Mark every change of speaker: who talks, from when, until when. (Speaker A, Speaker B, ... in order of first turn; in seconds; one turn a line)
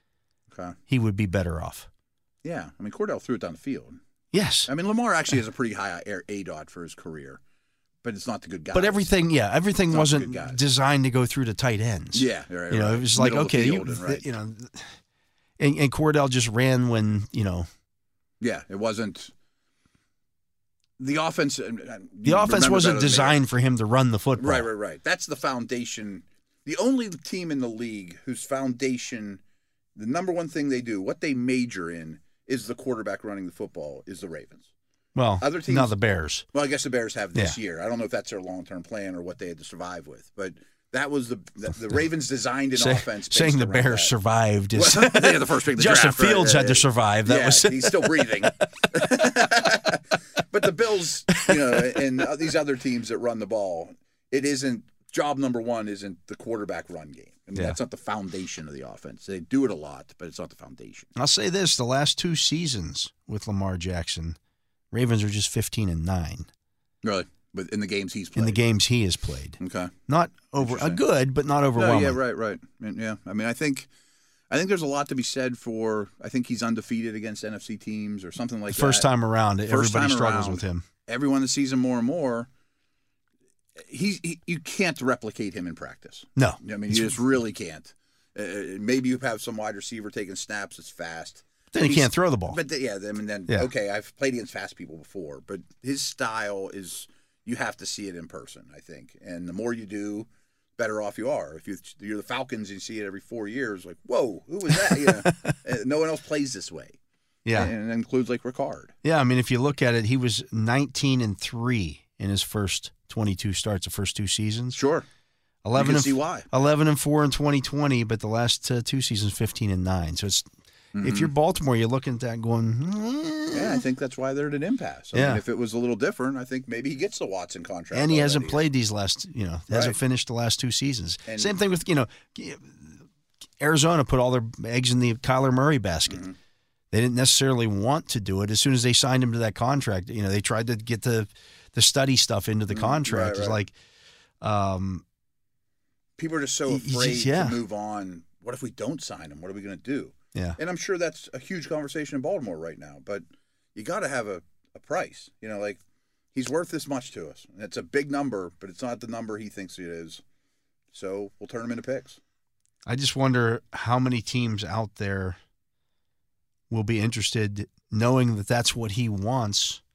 Speaker A: 0.5-0.8
Speaker B: 0.9-1.9
Speaker A: 2.4-4.0
Speaker B: 4.3-4.7
Speaker A: 4.7-7.4
Speaker A: 8.0-9.1
Speaker B: 8.7-14.9
Speaker A: 9.9-10.6
Speaker A: 12.1-14.4
Speaker B: 15.6-17.7
Speaker A: 18.4-19.3
Speaker A: 21.0-23.4
Speaker B: 22.2-24.7
Speaker A: 24.4-29.4
Speaker A: 29.9-34.6
Speaker B: 35.1-36.4
Speaker A: 35.4-36.0
Speaker A: 36.5-44.1
Speaker B: 42.7-48.5
Speaker A: 44.7-61.1
Speaker B: 51.5-51.8
Speaker B: 61.1-64.4
Speaker B: 64.9-66.5
Speaker A: 67.0-68.6
Speaker B: 68.4-72.2
Speaker A: 69.6-69.9
Speaker A: 70.6-71.0
Speaker A: 71.8-73.9
Speaker A: 74.5-79.1
Speaker B: 78.7-80.9
Speaker A: 79.7-82.5
Speaker A: 83.8-107.0
Speaker B: 86.4-87.2
Speaker B: 91.7-92.6
Speaker B: 104.7-105.5
Speaker B: 107.4-107.7
Speaker A: 107.5-108.9
Speaker B: 109.0-114.8
Speaker A: 114.7-115.0
Speaker B: 115.6-120.5
Speaker A: 115.7-116.5
Speaker A: 120.9-121.3
Speaker B: 121.0-123.8
Speaker A: 123.5-128.6
Speaker B: 125.1-125.4
Speaker B: 127.9-133.0
Speaker A: 129.7-130.0
Speaker A: 131.2-131.5
Speaker B: 133.6-136.2
Speaker A: 136.1-136.4
Speaker B: 136.9-143.7
Speaker A: 142.7-143.6
Speaker B: 144.4-145.0
Speaker A: 146.2-155.8
Speaker B: 146.7-147.6
Speaker A: 156.3-160.2
Speaker A: 160.9-162.2
Speaker B: 162.9-165.4
Speaker B: 166.7-169.8